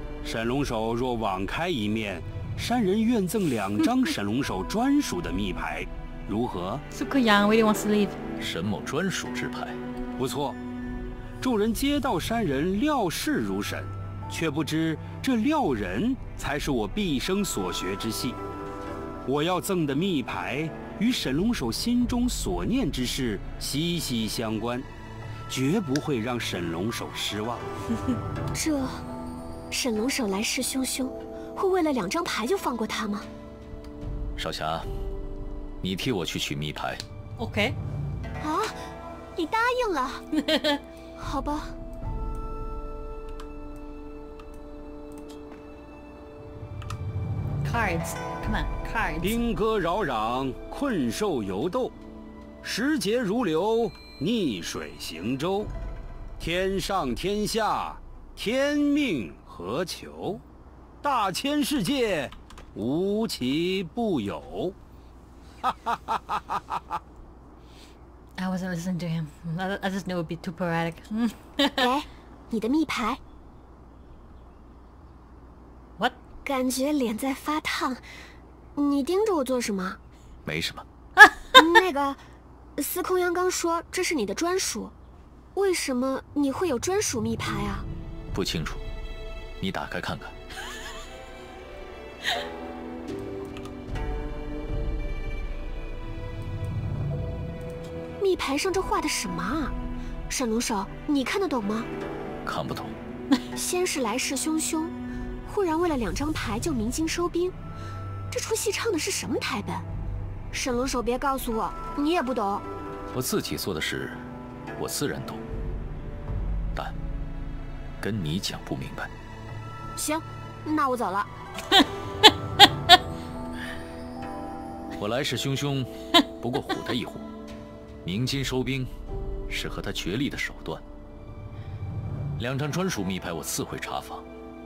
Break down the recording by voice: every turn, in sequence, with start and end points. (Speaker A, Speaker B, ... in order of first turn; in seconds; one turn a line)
Speaker A: 0.2-6.8
Speaker B: 6.9-8.2
Speaker C: 8.4-9.8
Speaker A: 10.2-10.6
Speaker A: 11.4-18.4
Speaker A: 19.2-24.9
Speaker A: 25.5-27.6
Speaker D: 28.5-29.1
Speaker D: 29.7-33.3
Speaker C: 34.4-34.9
Speaker C: 35.8-37.0
Speaker B: 37.4-37.8
Speaker D: 38.4-38.8
Speaker D: 39.3-40.2
Speaker B: 40.3-40.8
Speaker D: 41.1-41.8
Speaker B: 47.6-49.4
Speaker A: 49.2-51.9
Speaker A: 52.6-55.7
Speaker A: 56.4-60.4
Speaker A: 61.0-64.7
Speaker A: 65.7-66.6
Speaker B: 68.4-71.8
Speaker D: 71.8-73.2
Speaker D: 76.4-78.0
Speaker D: 78.8-80.0
Speaker C: 80.5-80.8
Speaker D: 81.5-82.2
Speaker D: 82.8-84.9
Speaker D: 85.5-87.9
Speaker C: 88.3-88.8
Speaker C: 89.6-90.3
Speaker D: 98.2-99.8
Speaker D: 100.3-101.9
Speaker C: 102.4-103.0
Speaker D: 103.5-107.5
Speaker D: 108.3-109.9
Speaker D: 110.5-112.7
Speaker C: 113.1-115.4
Speaker C: 118.0-119.1
Speaker D: 120.0-121.3
Speaker C: 125.0-127.3
Speaker C: 128.0-128.9
Speaker C: 129.5-130.8
Speaker C: 132.4-134.2